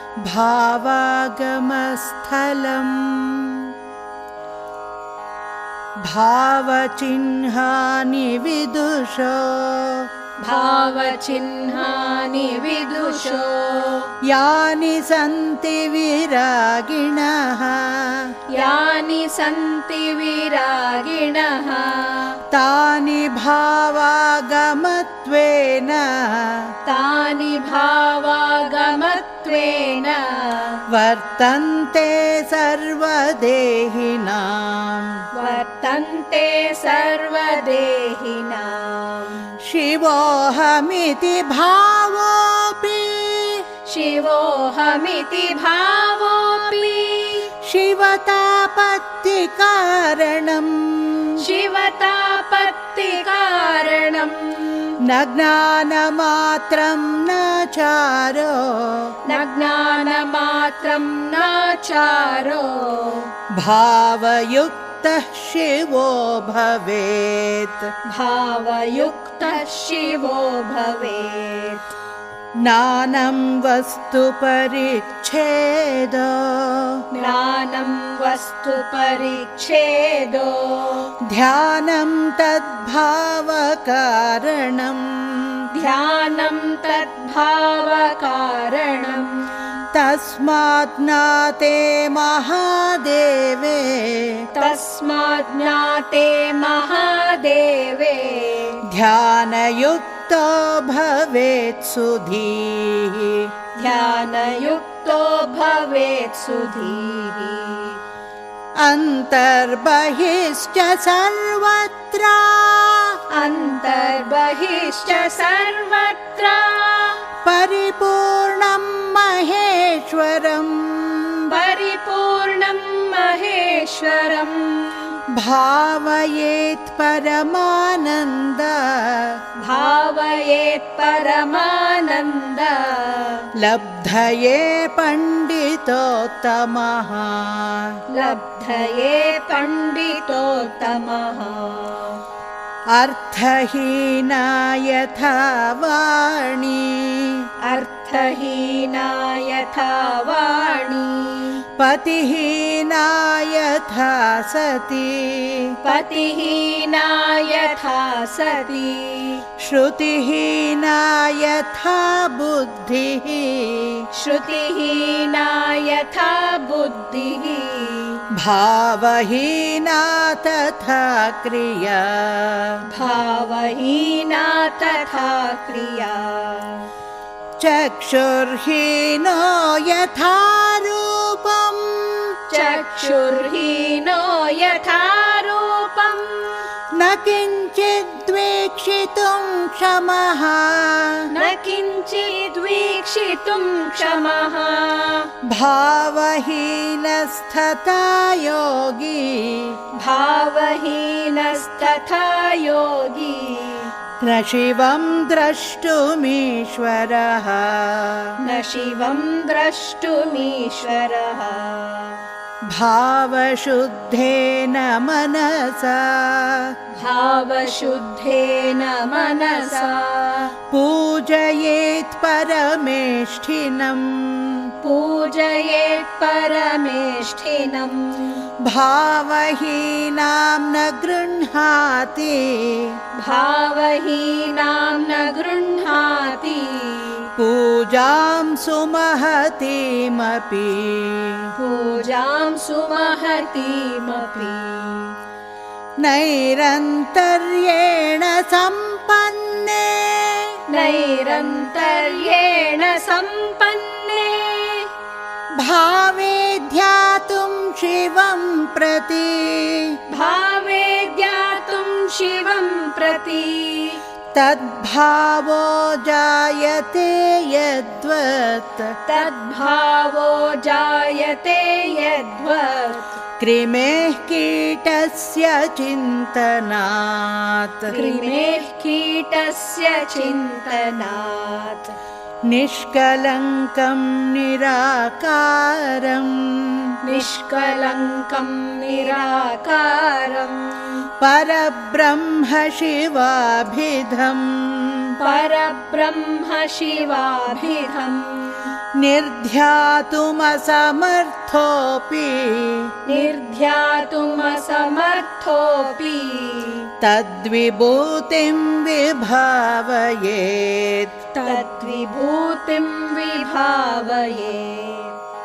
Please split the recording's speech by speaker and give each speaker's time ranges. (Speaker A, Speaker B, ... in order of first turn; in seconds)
Speaker A: 0.2-3.7, 6.0-10.1, 14.2-18.4, 22.5-26.6, 30.9-35.1, 39.6-43.6, 47.6-51.4, 55.0-59.1, 63.5-67.9, 72.6-77.0, 81.2-85.7, 89.9-94.5, 98.9-103.5, 108.8-113.2, 117.4-121.5, 125.3-129.4, 133.6-138.0, 142.9-147.4, 151.8-155.7, 159.6-164.0, 168.3-172.8, 177.6-182.3, 186.9-191.3, 195.4-199.8, 204.2-208.3, 212.7-216.7, 220.7-224.7, 228.6-233.0, 237.4-241.5, 246.0-250.6, 255.6-259.9, 264.3-268.9, 273.4-277.9, 282.5-286.9, 291.2-295.1, 299.0-302.9, 307.0-311.2
Speaker B: 10.4-14.1, 18.5-22.4, 26.9-30.8, 35.3-39.5, 43.9-47.5, 51.4-54.9, 59.2-63.3, 68.0-71.8, 77.1-81.1, 85.7-89.3, 94.5-98.8, 103.8-108.0, 113.3-117.2, 121.5-125.1, 129.6-133.4, 138.1-142.2, 147.7-151.6, 155.8-159.4, 164.1-168.2, 172.9-176.9, 182.5-186.7, 191.3-195.3, 200.0-203.9, 208.4-212.2, 217.0-220.5, 224.8-228.4, 233.2-237.3, 241.6-245.1, 250.7-254.9, 260.1-264.0, 269.1-273.2, 277.9-281.9, 287.0-291.0, 295.2-298.7, 303.1-306.9, 311.3-315.1